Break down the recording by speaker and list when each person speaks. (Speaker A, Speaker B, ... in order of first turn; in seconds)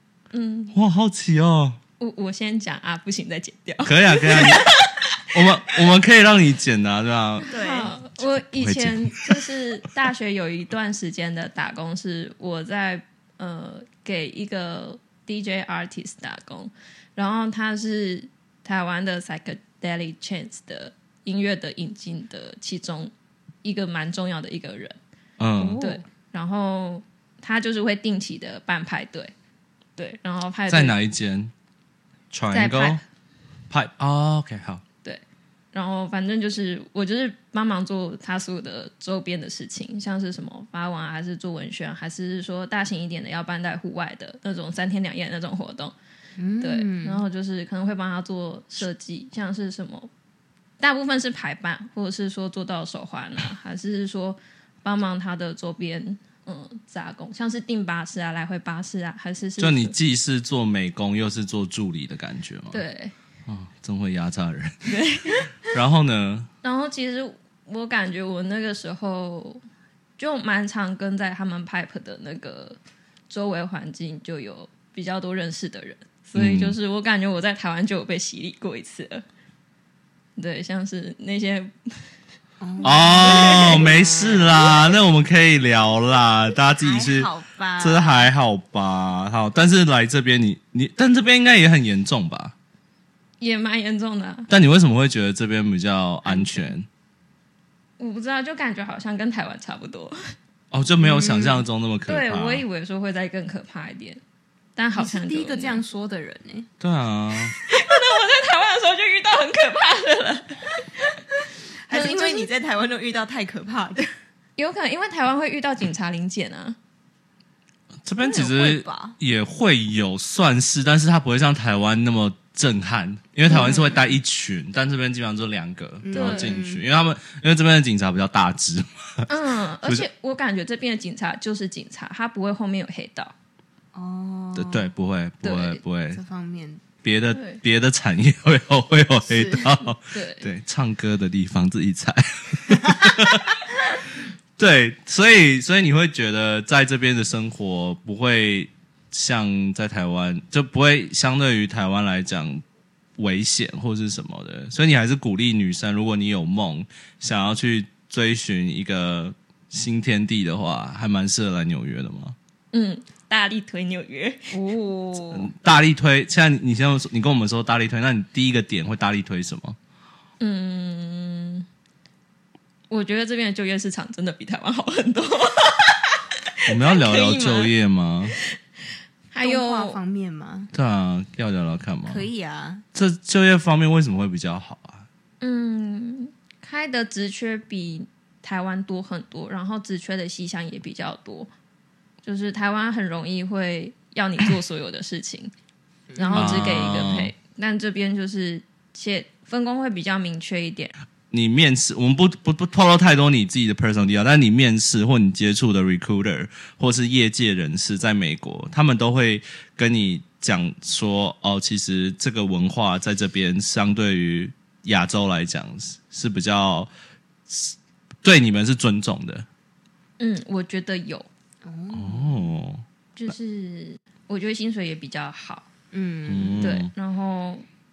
Speaker A: 0.3-0.7, 2.0-5.2, 7.5-23.1, 23.6-25.0, 25.8-29.3, 30.0-30.9, 32.5-33.0, 35.7-45.9, 46.6-50.1, 50.8-59.9, 62.7-63.1, 64.9-65.4, 66.6-69.6, 70.2-72.8, 73.3-79.2, 80.4-82.1, 82.8-84.1, 93.4-94.5, 98.0-100.3, 102.0-104.2, 104.8-105.8, 107.6-111.2, 111.9-112.5, 114.6-116.8, 123.5-123.8, 126.1-126.5, 129.3-133.3, 135.4-135.8, 137.3-137.6, 140.1-140.5, 162.7-164.6, 170.4-171.7, 172.9-177.7, 179.3-180.0, 185.4-191.5, 192.2-195.5, 196.2-200.9, 220.2-221.3, 223.2-225.7, 226.6-227.6
Speaker B: 0.7-1.8, 3.8-4.7, 5.3-7.5, 8.2-9.4, 25.4-25.8, 30.7-31.5, 32.3-33.0, 33.7-34.8, 59.6-62.8, 63.5-66.5, 76.3-76.8, 82.8-92.5, 94.5-96.9, 100.7-102.6, 106.8-107.5, 118.0-129.3, 134.5-136.2, 137.0-143.6, 144.6-152.6, 153.2-162.3, 165.3-169.8, 176.7-178.3, 180.7-182.3, 182.9-185.1, 196.3-197.3, 201.3-216.9, 217.5-219.4, 221.9-223.3, 226.3-226.9
Speaker C: 7.5-7.9, 25.6-26.0, 46.4-47.2, 82.6-84.7, 86.8-88.3, 96.3-96.7, 101.0-101.6, 105.0-106.7, 111.8-114.1, 118.2-119.2, 123.5-124.0, 126.0-126.8, 133.9-134.9, 136.1-136.8, 139.3-139.8, 164.5-165.5, 179.4-180.7, 182.1-182.8, 196.1-196.7, 221.6-222.5, 225.9-226.7